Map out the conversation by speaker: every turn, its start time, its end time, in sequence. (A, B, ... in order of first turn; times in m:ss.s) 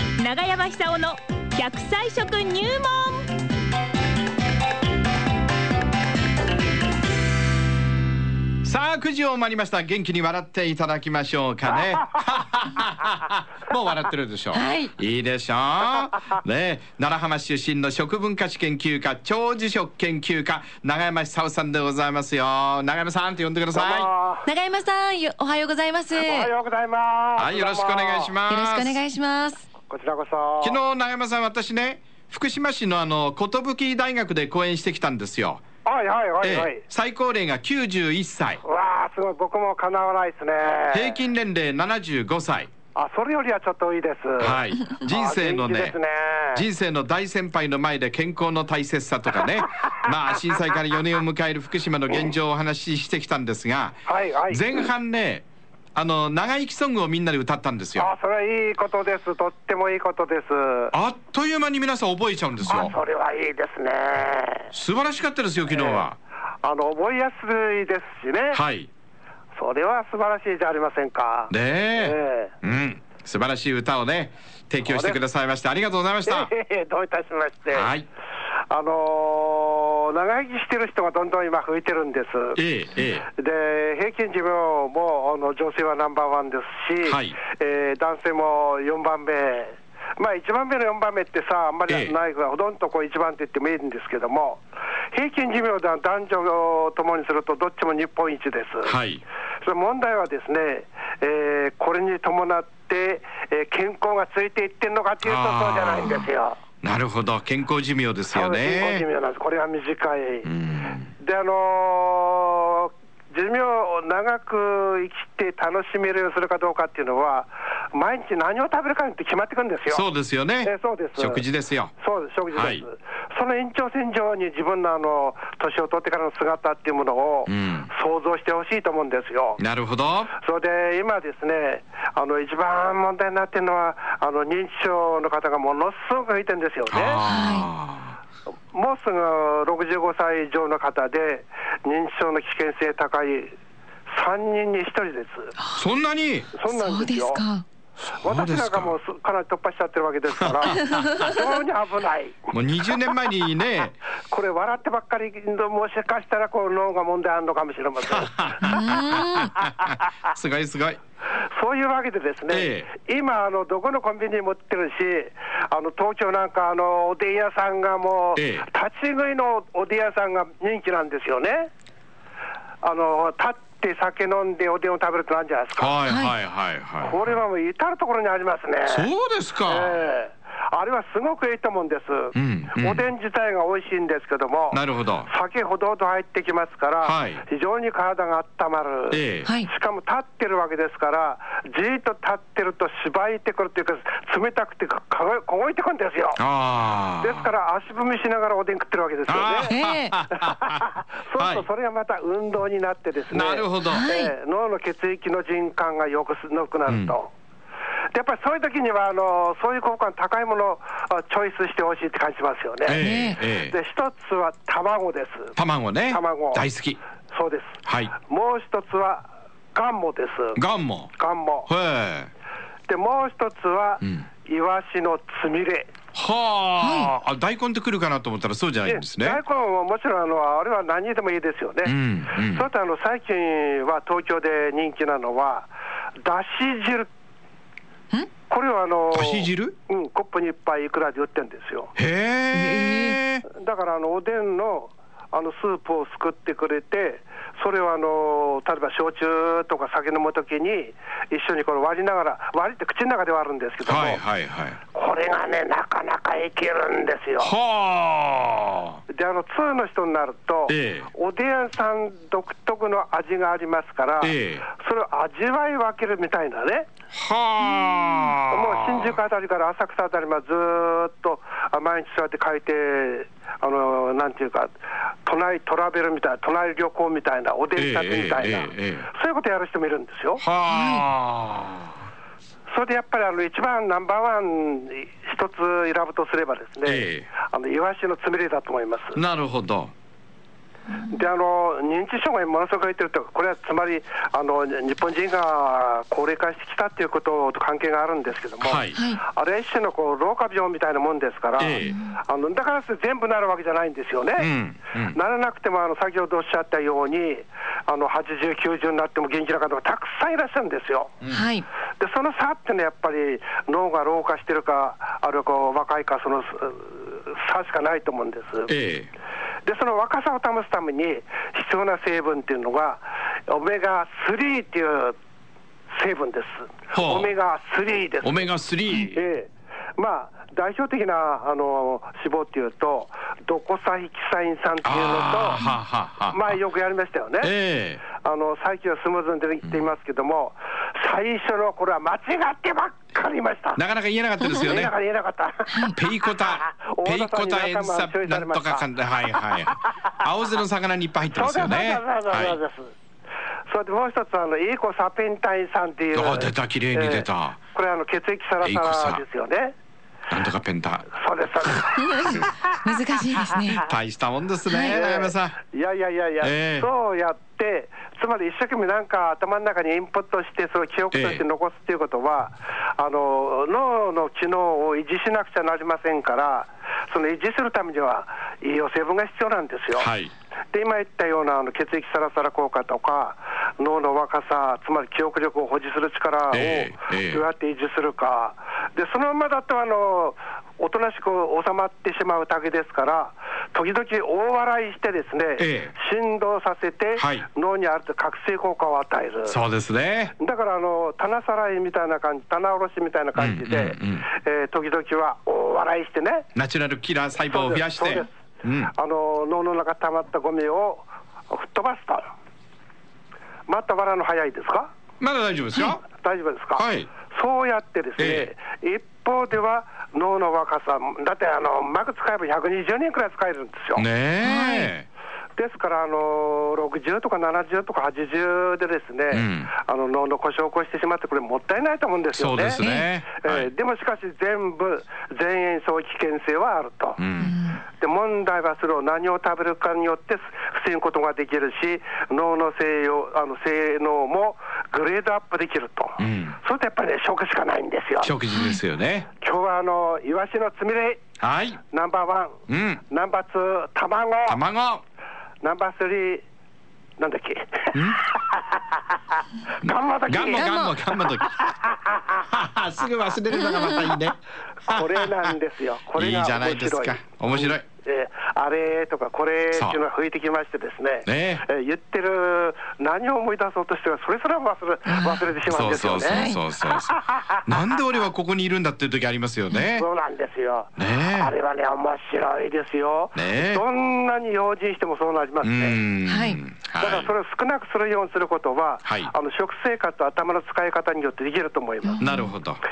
0:00.2-0:03.2 A
0:08.6-0:24.1 B
0:14.5-0:14.9 C
0:23.7-0:24.5 D
0:24.4-0:26.5 C
0:26.1-0:28.3 D
0:27.4-0:29.0 B
0:28.5-0:29.6 C
0:29.8-0:30.8 D
0:30.6-0:35.6 B
0:35.8-0:36.8 D
0:36.4-0:38.6 B
0:38.6-0:41.2 D
0:40.9-0:42.7 B
0:42.9-0:46.6 D
0:44.4-0:46.0 B
0:46.5-0:54.0 B
0:54.0-0:54.8 D
0:54.5-0:58.1 B
0:58.0-1:00.9 D
1:00.9-1:03.0 B
1:02.7-1:04.7 D
1:04.7-1:06.2 B
1:05.7-1:06.1 D
1:06.6-1:08.6 D
1:08.5-1:08.9 B
1:09.5-1:12.5 D
1:11.5-1:16.5 B
1:14.8-1:15.2 D
1:16.2-1:17.9 D
1:17.7-1:18.1 B
1:18.7-1:22.6 D
1:22.6-1:23.2 B
1:23.2-1:39.0 D
1:27.0-1:27.4 B
1:31.9-1:32.1 B
1:38.8-1:39.2 B
1:39.6-1:46.6 D
1:45.2-1:46.2 B
1:46.8-1:49.0 B
1:48.3-1:50.5 D
1:50.4-1:51.1 B
1:51.1-2:00.0 D
1:59.9-2:01.9 B
2:00.6-2:01.4 D
2:02.0-2:09.6 D
2:02.5-2:02.8 B
2:07.5-2:07.9 B
2:09.6-2:10.3 B
2:10.3-2:17.2 D
2:16.9-2:18.2 B
2:17.2-2:17.7 C
2:18.7-2:23.6 D
2:24.1-2:25.5 D
2:25.8-2:26.5 B
2:26.5-2:27.4 D
2:26.7-2:27.6 C
2:28.2-2:28.9 B
2:28.2-2:32.5 D
2:30.4-2:31.3 B
2:32.5-2:34.0 B
2:34.3-2:38.8 D
2:38.0-2:41.0 B
2:38.6-2:39.5 C
2:41.4-2:51.7 D
2:42.5-2:42.9 B
2:48.4-2:48.7 B
2:52.8-2:56.0 D
2:55.8-2:57.3 B
2:56.0-2:56.3 C
2:57.0-2:59.1 D
2:58.9-3:00.0 B
2:59.6-3:16.4 D
3:02.3-3:03.0 B
3:04.7-3:05.3 B
3:07.0-3:07.4 B
3:09.1-3:09.5 B
3:16.4-3:17.5 B
3:17.2-3:19.8 D
3:19.3-3:21.6 B
3:19.6-3:20.2 C
3:20.3-3:27.3 D
3:23.3-3:24.0 B
3:23.8-3:24.3 C
3:26.9-3:27.1 B
3:28.1-3:35.6 D
3:32.8-3:33.8 B
3:33.0-3:33.4 C
3:35.6-3:37.0 B
3:36.1-3:36.6 D
3:37.3-3:40.6 D
3:37.8-3:38.1 B
3:40.6-3:41.1 B
3:41.1-3:41.7 D
3:41.7-3:42.3 B
3:42.9-3:45.9 D
3:44.0-3:44.2 B
3:46.1-3:49.4 B
3:46.8-3:47.1 C
3:48.8-3:57.1 D
3:51.8-3:52.7 B
3:58.5-4:01.9 D
3:59.1-3:59.7 B
4:02.0-4:03.4 B
4:02.5-4:03.2 C
4:03.4-4:14.2 D
4:13.8-4:14.8 B
4:14.9-4:17.5 D
4:17.4-4:19.0 B
4:19.1-4:26.9 D
4:20.7-4:21.1 B
4:24.2-4:24.6 B
4:27.1-4:29.2 B
4:28.5-4:40.4 D
4:37.8-4:39.1 B
4:40.4-4:41.9 B
4:40.7-4:41.0 C
4:42.7-4:49.2 D
4:46.8-4:47.3 B
4:49.1-4:49.9 B
4:51.0-5:04.5 D
4:58.6-4:59.0 B
4:58.9-4:59.2 C
5:01.6-5:02.0 B
5:01.8-5:02.2 C
5:04.4-5:05.2 B
5:05.0-5:11.2 D
5:11.3-5:11.6 C
5:12.0-5:18.7 D
5:18.7-5:19.1 B
5:19.6-5:25.2 D
5:25.9-5:28.5 D
5:26.9-5:27.3 B
5:28.2-5:29.2 B
5:29.1-5:35.6 D
5:34.8-5:36.6 B
5:36.3-5:37.5 D
5:37.4-5:38.0 B
5:38.1-5:43.8 D
5:43.8-5:44.9 B
5:44.6-5:45.9 D
5:45.7-5:45.9 C
5:45.9-5:52.6 B
5:46.6-5:48.9 D
5:51.3-5:52.9 D
5:53.7-5:59.7 D
5:56.1-5:57.6 B
5:58.6-5:59.2 B
6:00.3-6:01.1 B
6:01.1-6:02.7 D
6:02.0-6:03.8 C
6:03.7-6:05.6 B
6:04.6-6:05.1 C
6:04.8-6:20.1 D
6:06.4-6:06.9 B
6:11.1-6:11.4 B
6:19.9-6:20.3 B
6:20.7-6:39.6 D
6:26.5-6:27.4 B
6:35.6-6:35.9 B
6:37.2-6:37.4 B
6:39.4-6:40.3 B
6:40.4-6:46.5 D
6:43.4-6:44.2 B
6:46.5-6:48.9 B
6:47.5-6:48.3 D
6:48.9-6:52.3 D
6:53.7-6:54.9 D
6:55.2-6:56.0 B
6:55.8-7:04.0 D
6:56.8-6:57.1 B
6:58.2-6:58.5 B
7:04.0-7:05.1 B
7:04.4-7:04.9 C
7:05.6-7:12.8 D
7:09.3-7:09.7 B
7:12.3-7:13.7 B
7:12.8-7:13.1 C
7:13.3-7:17.2 D
7:17.2-7:17.5 B
7:17.4-7:17.8 C
7:17.9-7:28.4 D
7:26.2-7:26.6 B
7:28.2-7:29.3 B
7:28.5-7:28.8 C
7:29.4-7:31.2 D
7:31.4-7:31.8 B
7:31.8-7:34.6 D
7:32.7-7:33.0 B
7:34.5-7:35.0 B
7:35.6-7:36.4 D
7:37.2-7:40.7 D
7:37.9-7:38.2 B
7:39.8-7:41.6 B
7:40.4-7:41.0 C
7:41.3-7:42.4 D
7:42.4-7:45.5 B
7:43.6-7:44.1 C
7:44.8-7:57.6 D
7:46.1-7:47.8 B
7:49.7-7:50.0 B
7:51.2-7:51.6 B
7:55.0-7:55.5 C
7:55.6-8:00.0 B
7:56.2-7:56.6 C
7:59.9-8:06.0 D
8:01.0-8:01.5 B
8:03.3-8:03.8 B
8:05.6-8:07.3 B
8:06.3-8:06.6 C
8:07.0-8:12.2 D
8:09.0-8:09.3 B
8:12.0-8:12.5 C
8:12.2-8:12.8 B